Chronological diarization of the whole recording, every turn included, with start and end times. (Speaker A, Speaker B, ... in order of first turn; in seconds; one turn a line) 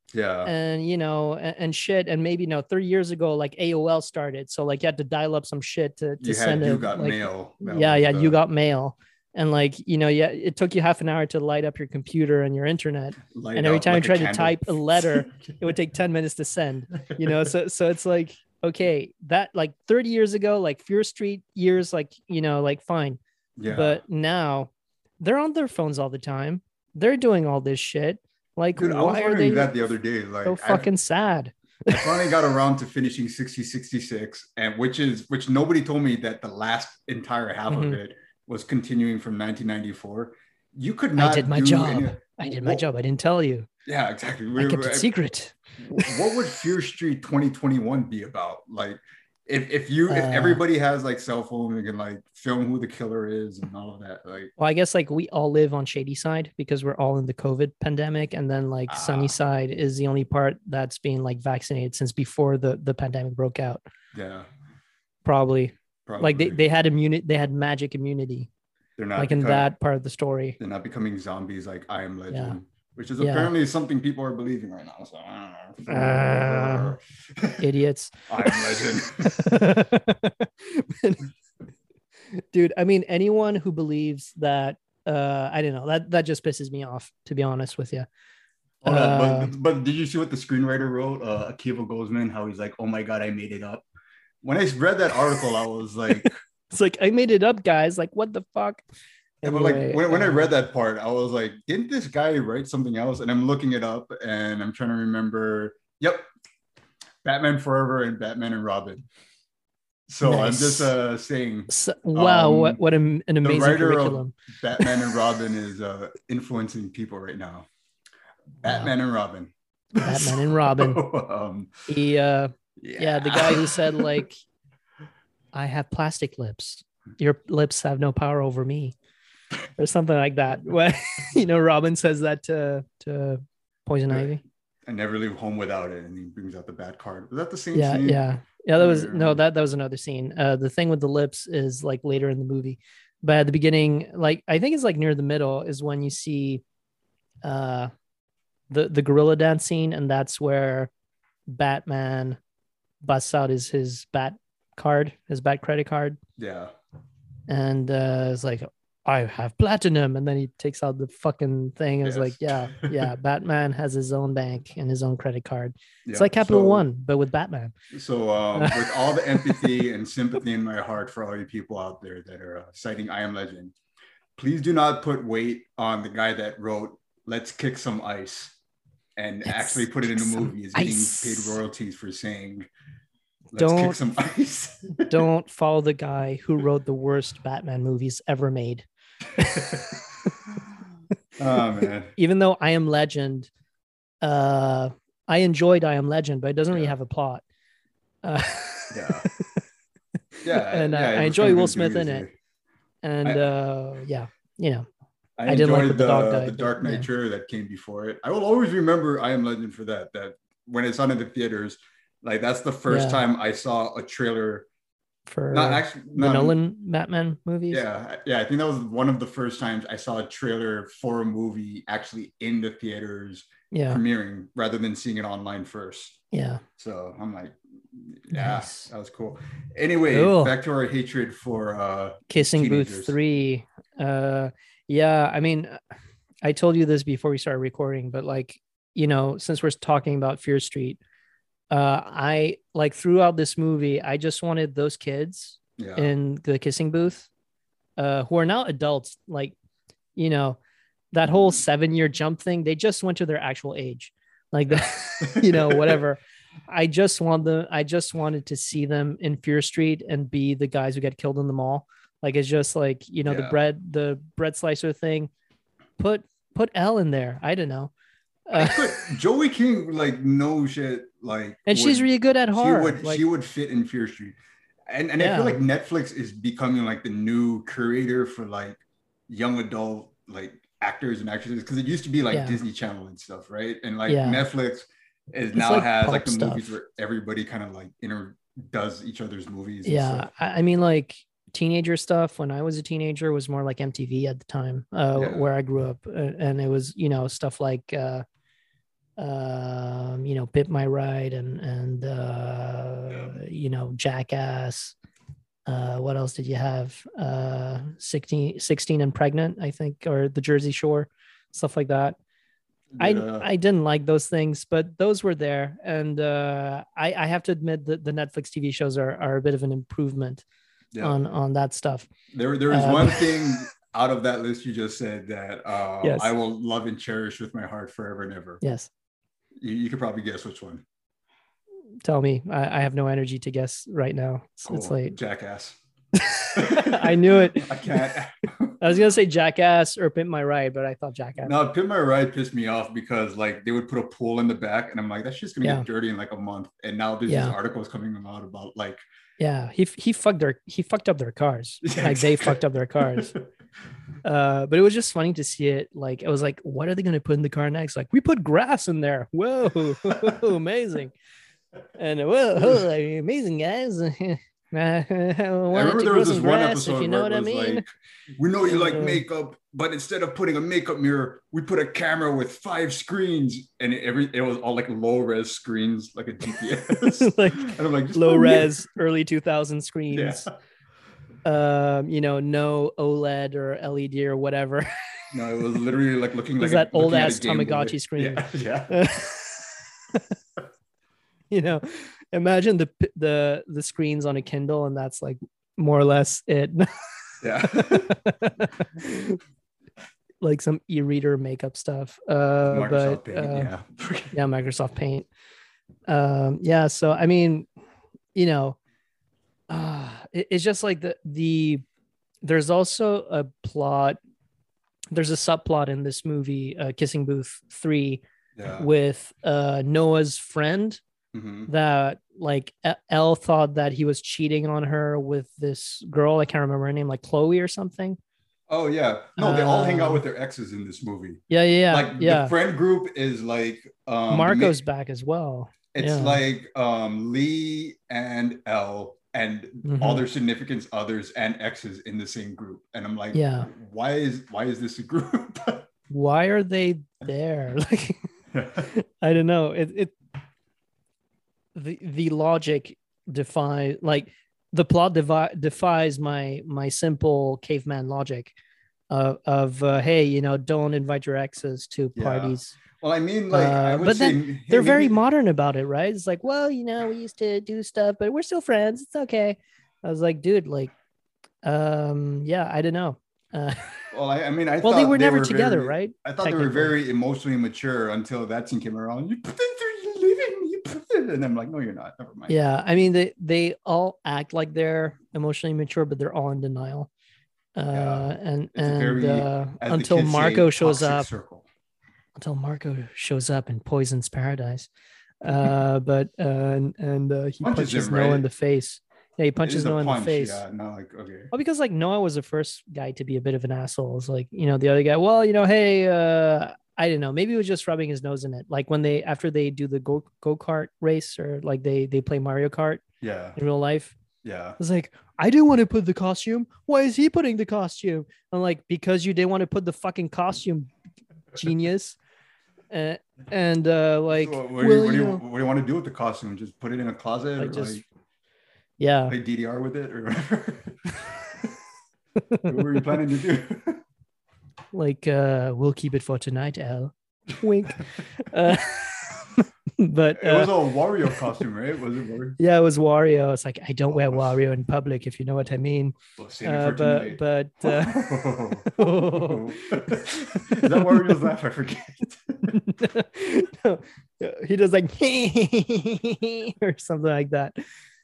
Speaker A: 0.1-0.5
Speaker B: 0.4-29.7
Speaker A: 6.2-8.4
Speaker A: 13.3-15.5
Speaker A: 23.6-24.0
Speaker A: 28.7-30.9
Speaker B: 30.4-32.3
Speaker A: 31.9-42.8
Speaker B: 37.7-38.0
Speaker B: 41.1-43.7
Speaker A: 43.9-45.1
Speaker B: 44.6-46.2
Speaker A: 45.8-54.5
Speaker B: 50.1-50.6
Speaker B: 54.6-63.8
Speaker A: 58.9-59.3
Speaker A: 64.1-64.5
Speaker B: 65.2-68.5
Speaker A: 66.0-66.6
Speaker A: 69.0-69.7
Speaker B: 69.2-70.6
Speaker A: 70.6-77.7
Speaker B: 72.3-72.5
Speaker B: 73.2-73.5
Speaker B: 75.9-77.0
Speaker B: 77.6-81.3
Speaker A: 78.3-79.7
Speaker B: 82.3-88.1
Speaker A: 88.8-93.8
Speaker B: 88.8-89.5
Speaker A: 94.4-96.3
Speaker B: 96.2-98.8
Speaker B: 99.4-100.5
Speaker A: 99.4-106.2
Speaker A: 107.2-109.0
Speaker A: 110.1-112.8
Speaker B: 110.2-110.9
Speaker B: 111.7-114.9
Speaker A: 113.4-117.7
Speaker A: 118.6-121.9
Speaker B: 118.6-118.9
Speaker B: 120.0-121.0
Speaker B: 121.9-124.4
Speaker A: 122.8-124.2
Speaker B: 125.5-128.9
Speaker B: 129.8-134.4
Speaker A: 134.8-138.2
Speaker B: 137.7-146.6
Speaker A: 138.8-139.4
Speaker B: 147.4-147.9
Speaker B: 148.7-150.9
Speaker B: 151.5-152.4
Speaker B: 153.0-156.2
Speaker A: 156.4-156.7
Speaker B: 157.5-167.7
Speaker A: 162.0-163.1
Speaker A: 166.1-166.8
Speaker A: 167.9-173.7
Speaker B: 168.6-169.7
Speaker A: 174.4-178.6
Speaker A: 179.2-182.7
Speaker B: 179.4-181.6
Speaker A: 183.5-185.2
Speaker B: 183.6-184.0
Speaker B: 185.1-188.8
Speaker B: 189.4-190.4
Speaker A: 189.4-190.0
Speaker A: 191.4-192.1
Speaker B: 192.2-193.5
Speaker B: 194.2-197.4
Speaker B: 198.2-199.6
Speaker A: 198.9-199.3
Speaker B: 200.4-202.2
Speaker A: 200.4-202.3
Speaker B: 203.0-204.8
Speaker A: 203.2-203.5
Speaker A: 205.4-214.7
Speaker B: 205.5-207.1
Speaker B: 212.9-213.2
Speaker B: 215.3-217.8
Speaker A: 215.5-216.6
Speaker A: 217.7-226.2
Speaker B: 223.7-224.0
Speaker B: 226.3-226.6
Speaker A: 226.8-233.2
Speaker B: 228.3-228.9
Speaker B: 230.1-230.5
Speaker B: 232.3-235.8
Speaker B: 236.4-241.0
Speaker B: 241.7-247.3
Speaker A: 245.8-246.1
Speaker B: 248.0-249.5
Speaker B: 250.2-250.6
Speaker B: 251.1-265.3
Speaker A: 254.7-256.0
Speaker A: 263.2-263.6
Speaker B: 266.0-267.9
Speaker B: 268.5-269.0
Speaker A: 268.5-274.4
Speaker B: 271.7-273.2
Speaker A: 274.9-290.3
Speaker B: 275.2-275.6
Speaker B: 282.3-282.6
Speaker B: 284.1-284.4
Speaker B: 285.5-286.7
Speaker B: 289.8-298.2
Speaker A: 295.1-295.5
Speaker B: 299.2-304.9
Speaker A: 303.1-303.3
Speaker B: 305.7-312.2
Speaker A: 312.9-313.5
Speaker B: 313.0-320.4
Speaker B: 321.0-322.1
Speaker A: 322.3-328.6
Speaker B: 322.7-323.5
Speaker B: 326.0-326.3
Speaker B: 328.6-328.9
Speaker A: 329.6-330.8
Speaker B: 332.0-335.1
Speaker A: 334.7-335.8
Speaker B: 336.2-338.1
Speaker A: 336.5-339.0
Speaker B: 338.8-341.5
Speaker A: 341.4-349.0
Speaker B: 347.3-347.5
Speaker B: 349.4-353.3
Speaker A: 351.8-353.4
Speaker B: 354.2-361.1
Speaker A: 360.0-360.4
Speaker B: 361.9-367.8
Speaker A: 365.7-367.8
Speaker A: 368.3-378.7
Speaker B: 368.6-369.2
Speaker B: 376.9-380.4
Speaker A: 380.1-380.5
Speaker B: 381.4-385.3
Speaker A: 385.3-389.0
Speaker B: 386.6-390.3
Speaker B: 391.5-399.4
Speaker A: 397.4-398.2
Speaker B: 400.4-403.7
Speaker A: 402.7-404.4
Speaker B: 404.3-405.3
Speaker B: 406.1-407.7
Speaker B: 408.3-408.8
Speaker B: 409.7-411.8
Speaker B: 412.4-414.2
Speaker B: 415.1-418.2
Speaker A: 418.6-418.9
Speaker B: 418.7-421.0
Speaker A: 421.3-421.7
Speaker B: 421.7-428.2
Speaker A: 428.7-434.8
Speaker B: 429.4-430.2
Speaker B: 431.5-432.5
Speaker B: 434.3-436.4
Speaker A: 435.9-445.9
Speaker B: 439.8-440.2
Speaker B: 443.3-443.7
Speaker B: 446.1-448.2
Speaker A: 448.5-448.9
Speaker B: 448.9-450.1
Speaker B: 451.7-458.5
Speaker B: 459.1-462.8
Speaker A: 462.1-465.2
Speaker B: 463.5-470.9
Speaker B: 471.6-474.1
Speaker A: 474.1-482.6
Speaker B: 474.8-476.9
Speaker B: 482.5-487.1
Speaker B: 487.7-491.3
Speaker A: 487.9-491.6
Speaker B: 492.4-494.9
Speaker B: 495.4-500.6
Speaker A: 497.6-498.5
Speaker A: 499.6-501.5
Speaker B: 501.5-513.0
Speaker A: 513.2-513.6
Speaker B: 513.5-514.1
Speaker A: 514.4-514.8
Speaker B: 514.8-520.9
Speaker B: 521.5-522.2
Speaker B: 522.9-525.4
Speaker A: 524.4-528.0
Speaker B: 527.6-528.0
Speaker B: 529.0-529.3
Speaker A: 529.3-531.0
Speaker B: 532.5-532.8
Speaker A: 532.6-534.0
Speaker B: 534.9-540.7
Speaker A: 540.3-542.6
Speaker B: 542.6-548.3
Speaker A: 544.1-544.5
Speaker A: 546.4-552.8
Speaker B: 548.8-551.4
Speaker B: 552.7-557.8